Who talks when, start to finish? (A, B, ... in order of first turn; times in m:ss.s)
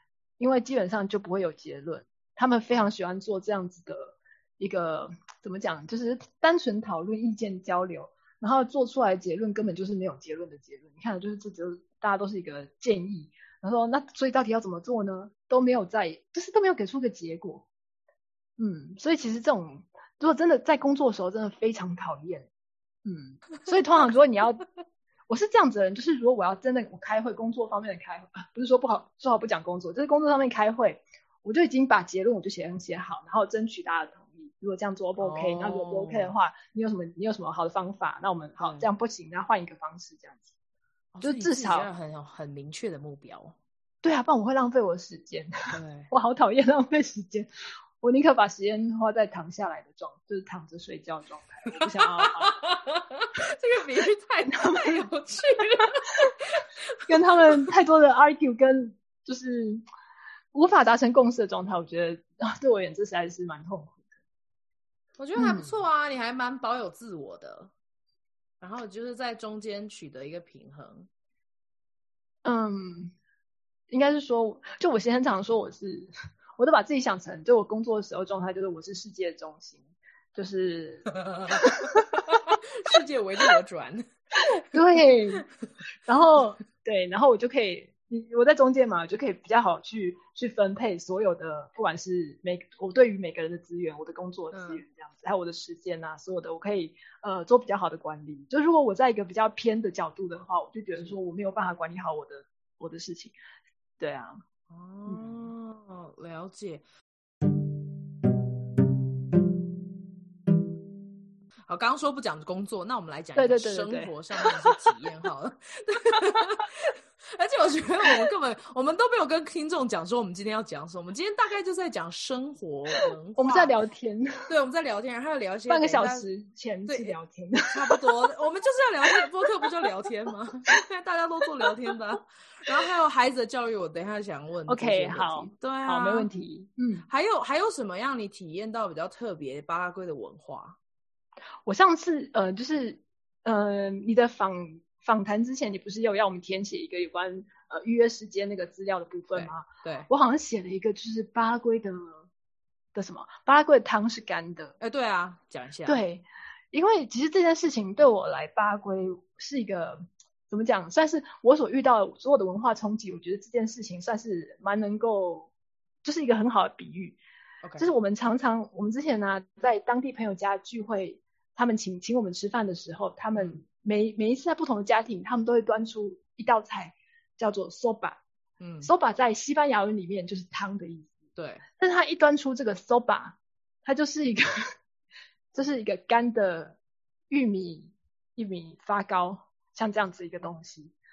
0:00.4-0:17.6 A
0:18.6-0:22.5 A
0:23.0-0:24.6 A
0:25.3-0:40.5 A
0:35.2-0:36.3 B
0:38.6-0:38.9 B
0:41.1-0:43.6 B
0:41.2-0:41.9 A
0:44.0-0:45.5 A
0:45.7-0:46.1 B
0:46.1-0:47.5 A
0:48.0-0:52.5 A
0:52.1-0:56.7 B
0:54.5-0:55.9 A
0:57.1-0:59.8 A
0:57.2-0:57.6 B
1:00.5-1:04.0 A
1:05.2-1:07.7 B
1:05.4-1:05.8 A
1:08.6-1:11.1 B
1:12.4-1:13.1 A
1:13.9-1:19.8 A
1:20.3-1:21.8 A
1:21.1-1:24.0 B
1:24.7-1:25.4 A
1:26.0-1:43.4 A
1:34.5-1:34.8 B
1:44.0-1:44.4 A
1:44.7-1:46.8 B
1:45.0-1:45.5 A
1:51.7-2:03.7 B
1:53.4-1:54.1 A
2:03.4-2:04.5 A
2:04.5-2:06.3 B
2:05.7-2:07.9 A
2:06.8-2:07.2 B
2:07.7-2:16.3 B
2:14.7-2:17.1 A
2:17.1-2:20.8 B
2:21.6-2:32.2 A
2:29.3-2:30.1 B
2:32.9-2:34.7 A
2:34.8-2:36.0 B
2:35.8-2:45.5 A
2:46.0-2:47.2 A
2:47.6-2:47.9 B
2:47.8-2:58.2 A
2:53.3-2:53.6 B
2:58.6-2:58.9 B
2:58.8-3:01.1 A
3:01.4-3:01.6 B
3:01.7-3:04.7 A
3:05.5-3:06.8 A
3:07.3-3:10.9 A